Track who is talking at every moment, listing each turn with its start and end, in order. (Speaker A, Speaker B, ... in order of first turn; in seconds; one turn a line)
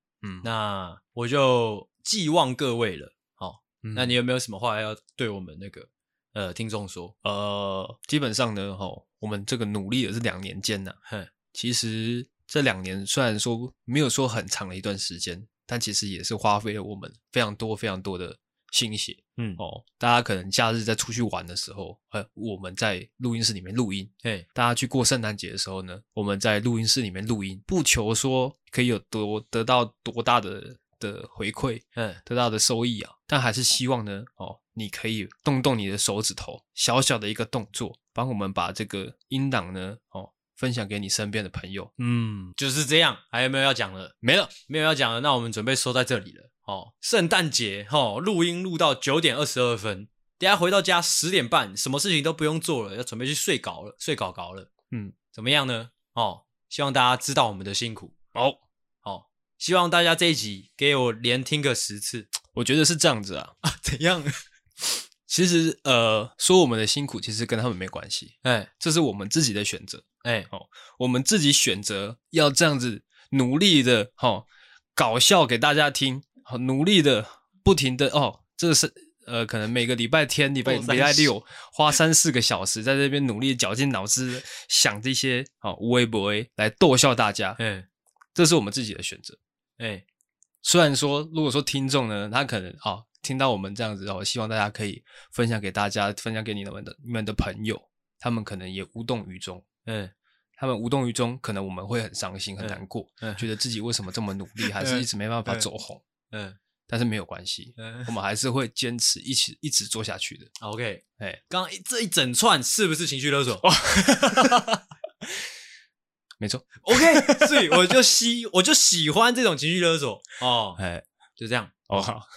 Speaker A: 0.2-0.5
Speaker B: 0.4-7.1
Speaker A: 3.8-4.2
Speaker A: 7.2-11.0
Speaker A: 11.5-42.5
Speaker B: 31.9-32.2
Speaker B: 42.6-54.7
Speaker A: 44.2-44.5
Speaker B: 55.3-58.2
Speaker B: 59.0-62.3
Speaker A: 62.5-63.5
Speaker B: 63.6-64.4
Speaker A: 65.3-87.6
Speaker B: 68.4-68.7
Speaker B: 70.2-70.5
Speaker B: 80.6-81.3
Speaker B: 87.6-87.9
Speaker A: 88.3-89.4
Speaker B: 89.8-90.0
Speaker A: 90.6-99.6
Speaker B: 99.8-100.1
Speaker A: 100.6-106.0
Speaker B: 102.6-103.5
Speaker B: 104.6-105.7
Speaker B: 106.3-106.6
Speaker A: 106.9-110.5
Speaker B: 107.8-108.1
Speaker B: 110.6-113.7
Speaker A: 113.6-115.4
Speaker A: 116.4-118.0
Speaker B: 116.8-120.8
Speaker A: 120.8-121.0
Speaker B: 121.4-122.1
Speaker A: 121.9-122.2